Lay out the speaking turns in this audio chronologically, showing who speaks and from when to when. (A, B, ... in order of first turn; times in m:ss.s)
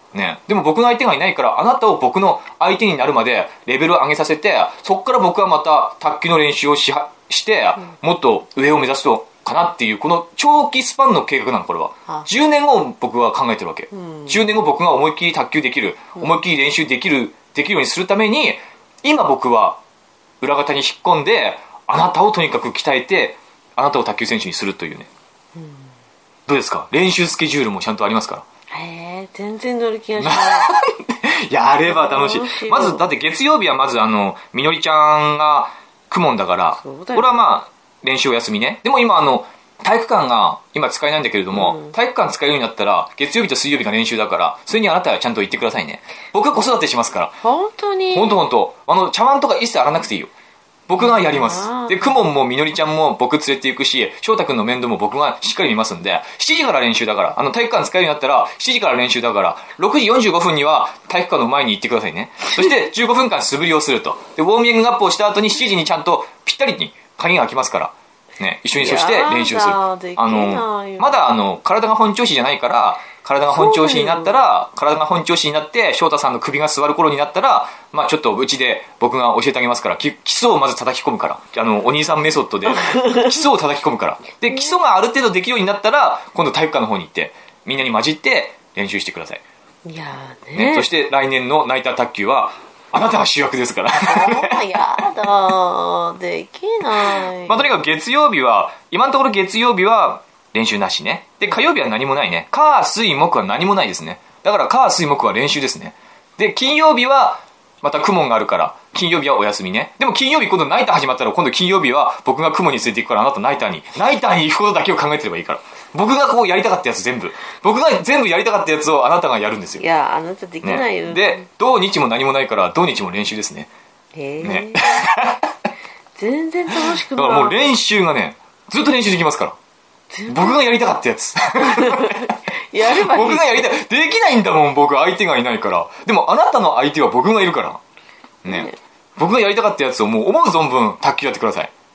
0:00.1-0:19.8 A
0:13.9-0:14.4 B
0:20.4-0:25.1 A
0:25.6-0:25.9 B
0:26.5-0:28.4 A
0:28.7-0:30.7 B
0:30.2-0:47.3 A
0:31.8-0:33.1 B
0:36.8-0:37.5 B
0:41.5-0:41.9 B
0:47.4-0:48.4 B
0:48.1-0:50.3 A
0:50.9-1:29.4 A
0:51.0-0:52.2 B
1:08.8-1:11.3 B
1:13.5-1:14.4 B
1:22.7-1:23.3 B
1:29.8-1:30.9 B
1:30.5-1:34.7 A
1:34.0-1:37.7 B
1:37.0-1:59.8 A
1:59.8-2:01.4 B
2:00.6-2:03.7 A
2:04.1-2:05.1 B
2:04.4-2:05.5 A
2:06.2-2:07.6 B
2:06.7-2:09.6 A
2:10.1-2:10.6 B
2:10.3-2:17.8 A
2:11.6-2:13.7 B
2:18.4-2:21.7 A
2:18.5-2:18.8 B